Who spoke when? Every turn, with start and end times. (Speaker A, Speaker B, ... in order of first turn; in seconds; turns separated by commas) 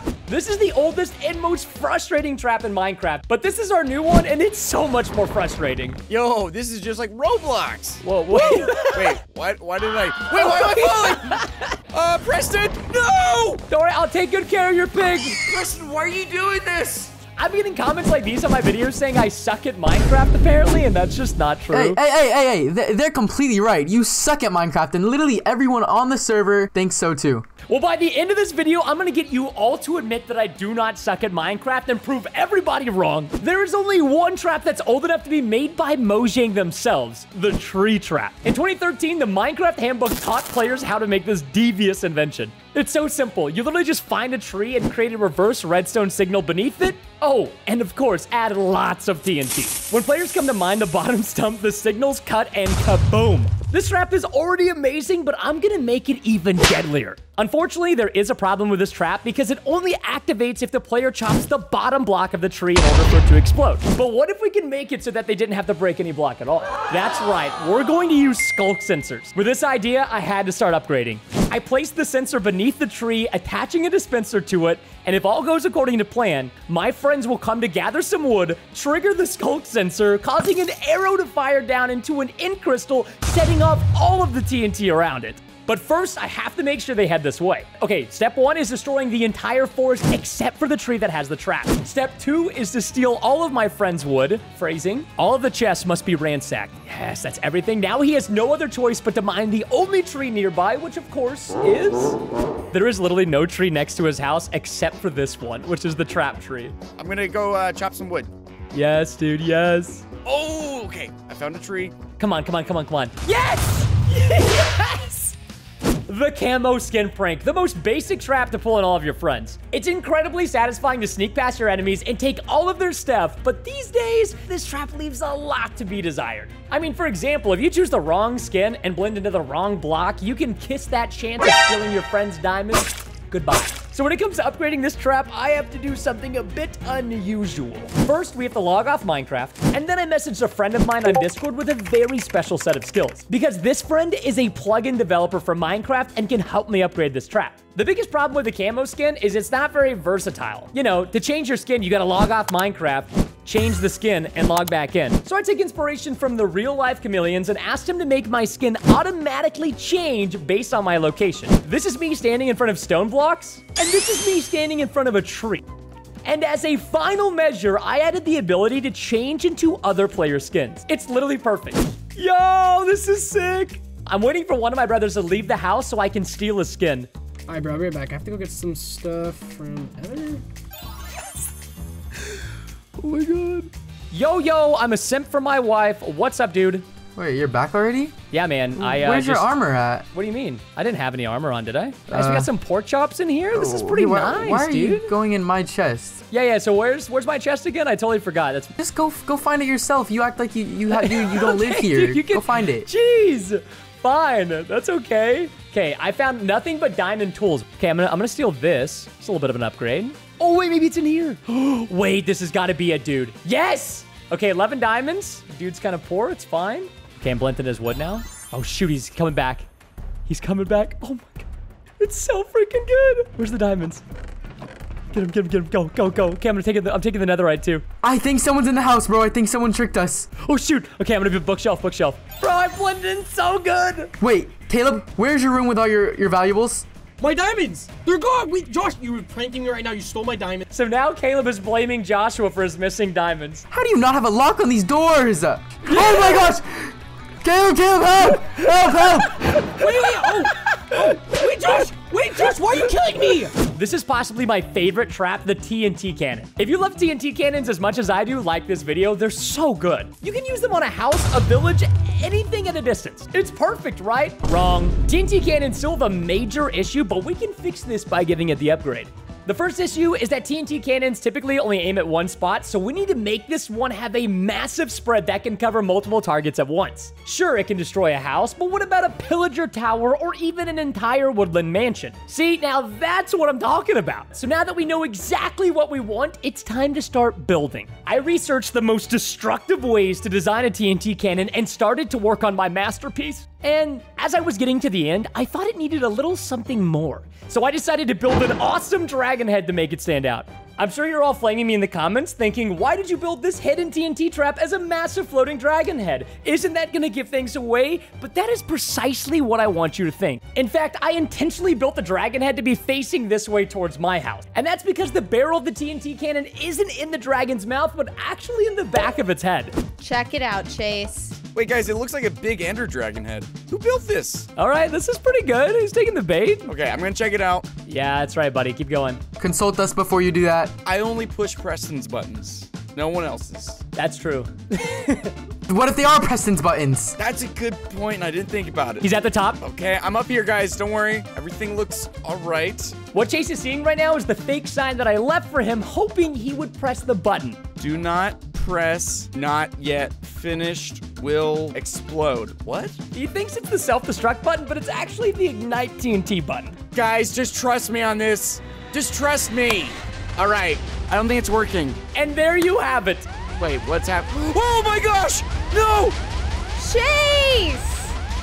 Speaker A: 0.3-6.0, Speaker B: 6.1-13.6, Speaker A: 8.0-9.2, Speaker A: 10.3-11.7, Speaker A: 13.7-15.4, Speaker B: 15.4-17.1, Speaker A: 17.4-22.0, Speaker C: 21.7-27.5, Speaker A: 27.7-102.2, Speaker A: 102.7-106.8, Speaker B: 107.0-108.3, Speaker A: 108.7-110.0, Speaker B: 110.2-112.0, Speaker A: 112.2-115.3, Speaker A: 116.1-165.6, Speaker A: 166.2-177.1, Speaker D: 177.5-180.4, Speaker A: 183.0-186.8, Speaker C: 187.2-188.2, Speaker A: 188.3-189.5, Speaker C: 188.8-190.1, Speaker A: 190.1-195.1, Speaker C: 192.1-192.5, Speaker C: 193.5-196.2, Speaker A: 196.3-198.7, Speaker C: 198.8-202.9, Speaker A: 200.9-219.7, Speaker A: 220.3-221.5, Speaker A: 222.0-224.0, Speaker A: 225.1-227.8, Speaker C: 228.0-230.3, Speaker A: 230.4-234.1, Speaker C: 234.2-236.9, Speaker D: 237.2-240.7, Speaker A: 240.7-243.7, Speaker C: 243.7-249.8, Speaker D: 245.9-246.4, Speaker D: 249.8-253.6, Speaker A: 253.6-319.8, Speaker E: 320.0-321.4, Speaker B: 321.5-324.5, Speaker A: 324.6-326.7, Speaker B: 326.7-327.7, Speaker A: 327.9-329.2, Speaker C: 329.4-330.7, Speaker B: 330.9-333.8, Speaker A: 334.0-335.4, Speaker C: 335.7-337.2, Speaker B: 337.2-343.0, Speaker A: 339.0-339.6, Speaker A: 343.1-347.6, Speaker B: 347.8-353.0, Speaker A: 353.1-356.8, Speaker B: 356.9-362.0, Speaker A: 362.1-363.3, Speaker B: 363.6-366.2, Speaker E: 366.8-368.1